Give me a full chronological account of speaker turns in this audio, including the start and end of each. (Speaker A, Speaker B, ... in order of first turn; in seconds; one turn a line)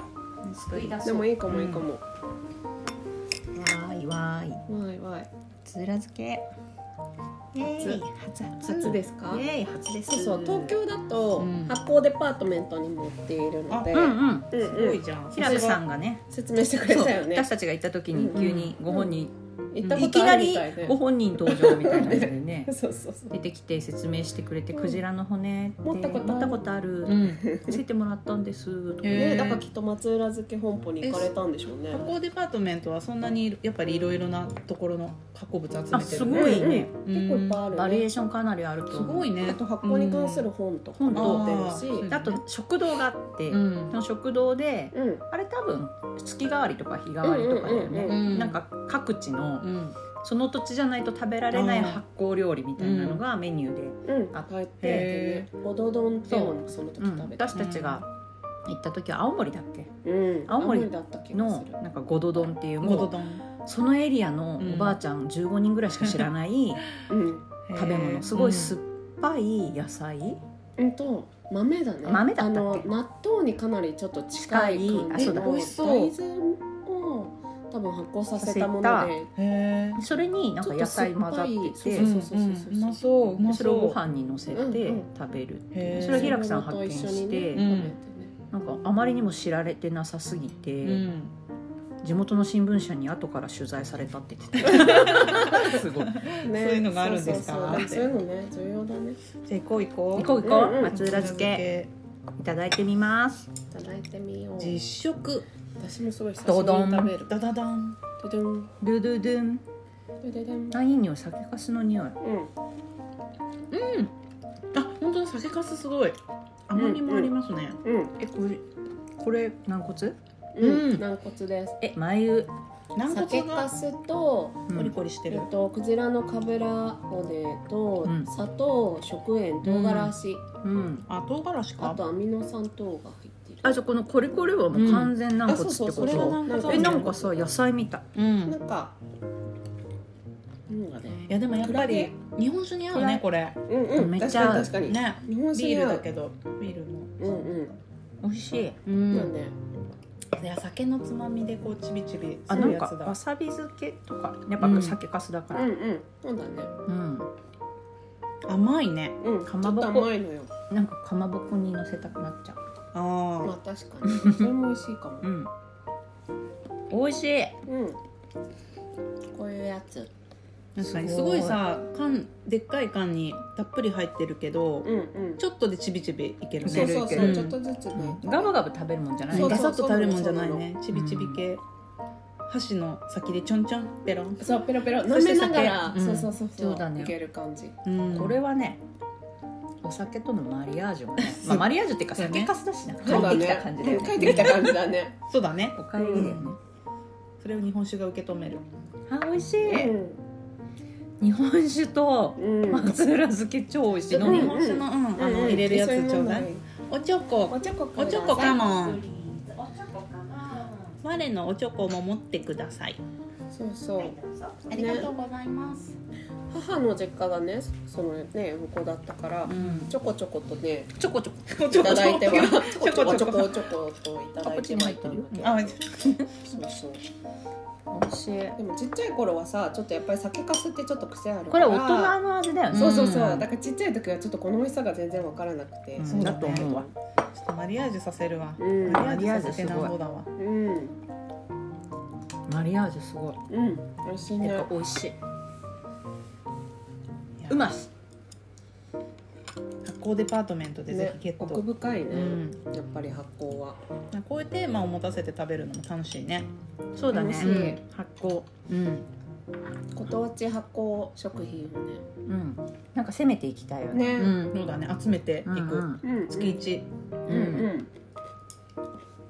Speaker A: 0.4-1.4
Speaker B: 1.0-2.0
Speaker C: 1.5-1.8
Speaker A: 3.5-4.6
Speaker B: 4.7-5.3
Speaker A: 5.6-6.5
Speaker A: 7.5-10.7
Speaker B: 7.8-8.0
Speaker B: 8.6-9.4
Speaker B: 10.1-15.8
Speaker C: 11.4-11.8
Speaker C: 13.7-14.0
Speaker A: 13.9-14.5
Speaker C: 14.5-15.8
Speaker A: 15.3-16.2
Speaker B: 16.3-17.5
Speaker A: 16.9-19.3
Speaker B: 18.1-19.1
Speaker C: 18.4-18.7
Speaker B: 19.7-23.4
Speaker C: 19.8-20.1
Speaker A: 19.9-22.7
Speaker A: 23.3-29.5
Speaker B: 24.7-25.0
Speaker B: 25.8-26.6
Speaker C: 27.1-27.4
Speaker B: 27.4-27.8
Speaker C: 29.0-29.6
Speaker B: 29.1-32.1
Speaker C: 31.0-31.3
Speaker C: 31.9-37.6
Speaker A: 35.9-36.9
Speaker B: 36.2-38.1
Speaker A: 37.7-39.3
Speaker C: 38.9-40.5
Speaker B: 39.3-42.1
Speaker A: 41.0-55.0
Speaker C: 41.1-42.4
Speaker C: 43.5-44.0
Speaker B: 44.9-45.2
Speaker B: 47.2-48.3
Speaker C: 48.0-48.6
Speaker C: 49.6-50.0
Speaker C: 51.5-52.0
Speaker C: 52.8-53.2
Speaker B: 54.1-57.6
Speaker C: 54.8-55.5
Speaker A: 56.3-58.1
Speaker C: 57.5-58.0
Speaker A: 58.6-59.9
Speaker B: 60.0-61.8
Speaker A: 60.5-66.8
Speaker C: 62.8-63.4
Speaker C: 64.6-65.0
Speaker C: 66.0-66.3
Speaker B: 67.1-67.5
Speaker C: 67.7-68.8
Speaker A: 67.7-70.4
Speaker B: 70.8-79.3
Speaker A: 72.0-72.9
Speaker A: 74.3-75.5
Speaker C: 75.2-76.1
Speaker A: 78.4-79.1
Speaker C: 79.4-80.0
Speaker A: 80.0-82.1
Speaker B: 80.6-83.0
Speaker C: 81.9-84.0
Speaker A: 83.4-87.7
Speaker B: 84.5-85.1
Speaker C: 85.7-86.4
Speaker B: 85.9-88.3
Speaker C: 87.5-87.9
Speaker A: 88.5-91.1
Speaker C: 90.8-91.3
Speaker A: 92.0-96.3
Speaker C: 94.6-98.1
Speaker B: 95.0-95.6
Speaker B: 96.4-99.2
Speaker C: 99.5-101.9
Speaker A: 100.1-101.6
Speaker B: 100.4-100.9
Speaker A: 102.4-103.5
Speaker B: 103.7-104.8
Speaker C: 104.6-105.5
Speaker B: 105.8-106.9
Speaker A: 106.4-107.1
Speaker C: 106.5-108.0
Speaker B: 108.2-108.7
Speaker A: 108.8-109.6
Speaker B: 110.2-110.8
Speaker A: 110.7-112.2
Speaker B: 112.2-112.5
Speaker C: 113.7-114.1
Speaker C: 114.7-117.8
Speaker B: 116.7-117.3
Speaker B: 117.8-118.1
Speaker A: 118.2-118.6
Speaker C: 119.2-119.5
Speaker A: 119.3-121.0
Speaker B: 120.5-121.8
Speaker A: 121.8-122.5
Speaker C: 122.9-123.7
Speaker B: 123.1-124.7
Speaker A: 124.7-124.9
Speaker C: 124.7-125.5
Speaker B: 125.3-130.4
Speaker A: 129.7-130.1
Speaker C: 129.7-130.1
Speaker A: 130.6-131.1
Speaker C: 131.1-132.0
Speaker B: 131.8-133.8
Speaker A: 133.6-138.1
Speaker C: 134.7-135.1
Speaker B: 135.4-137.5
Speaker C: 136.0-137.2
Speaker C: 138.1-138.6
Speaker B: 138.4-138.9
Speaker B: 140.7-142.1
Speaker C: 141.3-143.6
Speaker A: 142.9-143.2
Speaker B: 143.7-146.0
Speaker A: 143.9-144.8
Speaker C: 144.3-147.4
Speaker B: 147.2-147.8
Speaker A: 148.2-148.8
Speaker C: 148.8-149.3
Speaker B: 149.1-149.5
Speaker C: 150.4-153.2
Speaker A: 152.5-155.7
Speaker C: 154.6-155.0
Speaker B: 155.5-156.7
Speaker A: 156.9-157.3
Speaker C: 158.4-159.2
Speaker B: 159.2-160.5
Speaker A: 159.4-160.1
Speaker A: 160.7-162.6
Speaker C: 162.9-163.5
Speaker B: 163.4-165.2
Speaker A: 164.1-164.5
Speaker A: 165.2-165.5
Speaker A: 166.9-167.6
Speaker B: 167.7-168.0
Speaker B: 169.3-170.1
Speaker C: 170.8-177.6
Speaker A: 170.8-171.6
Speaker B: 174.8-175.4
Speaker A: 176.6-179.7
Speaker B: 176.6-178.5
Speaker B: 179.3-180.7
Speaker C: 179.3-181.6
Speaker A: 180.9-181.4
Speaker C: 182.4-186.2
Speaker B: 184.4-187.8
Speaker A: 185.9-187.1
Speaker C: 187.8-188.4
Speaker A: 188.1-188.8
Speaker A: 189.8-194.7
Speaker C: 191.2-193.5
Speaker B: 193.0-195.2
Speaker C: 194.2-194.7
Speaker C: 195.3-196.5
Speaker A: 195.7-196.6
Speaker B: 196.0-196.4
Speaker C: 197.4-198.6
Speaker A: 199.1-199.9
Speaker B: 199.7-200.2
Speaker A: 201.2-204.6
Speaker B: 202.4-203.0
Speaker C: 204.1-209.0
Speaker B: 204.2-206.6
Speaker B: 207.5-208.6
Speaker A: 208.2-211.0
Speaker C: 211.0-213.0
Speaker B: 213.5-214.2
Speaker A: 214.0-215.1
Speaker C: 214.7-216.0
Speaker B: 214.7-215.1
Speaker B: 216.5-220.9
Speaker C: 219.5-219.9
Speaker A: 219.5-219.9
Speaker A: 221.0-222.1
Speaker C: 221.5-223.7
Speaker B: 221.7-225.8
Speaker A: 224.4-226.3
Speaker C: 225.3-225.8
Speaker B: 226.4-227.0
Speaker A: 227.9-228.6
Speaker B: 228.6-232.2
Speaker A: 231.5-233.4
Speaker C: 232.7-233.4
Speaker B: 232.7-236.9
Speaker A: 236.0-236.9
Speaker C: 236.0-236.8
Speaker C: 237.3-240.3
Speaker B: 238.6-239.1
Speaker A: 238.9-239.9
Speaker B: 240.3-240.9
Speaker A: 242.5-243.4
Speaker B: 243.5-244.7
Speaker A: 244.4-245.2
Speaker C: 247.4-247.7
Speaker A: 247.5-247.9
Speaker C: 249.8-252.6
Speaker B: 250.9-253.8
Speaker C: 254.1-256.5
Speaker A: 256.9-258.6
Speaker B: 257.1-257.8
Speaker C: 257.4-257.8
Speaker C: 258.7-259.0
Speaker B: 259.9-262.0
Speaker A: 262.2-264.6
Speaker B: 263.9-264.4
Speaker C: 264.4-266.9
Speaker A: 265.4-266.0
Speaker B: 266.0-266.6
Speaker A: 267.3-267.7
Speaker B: 267.3-267.9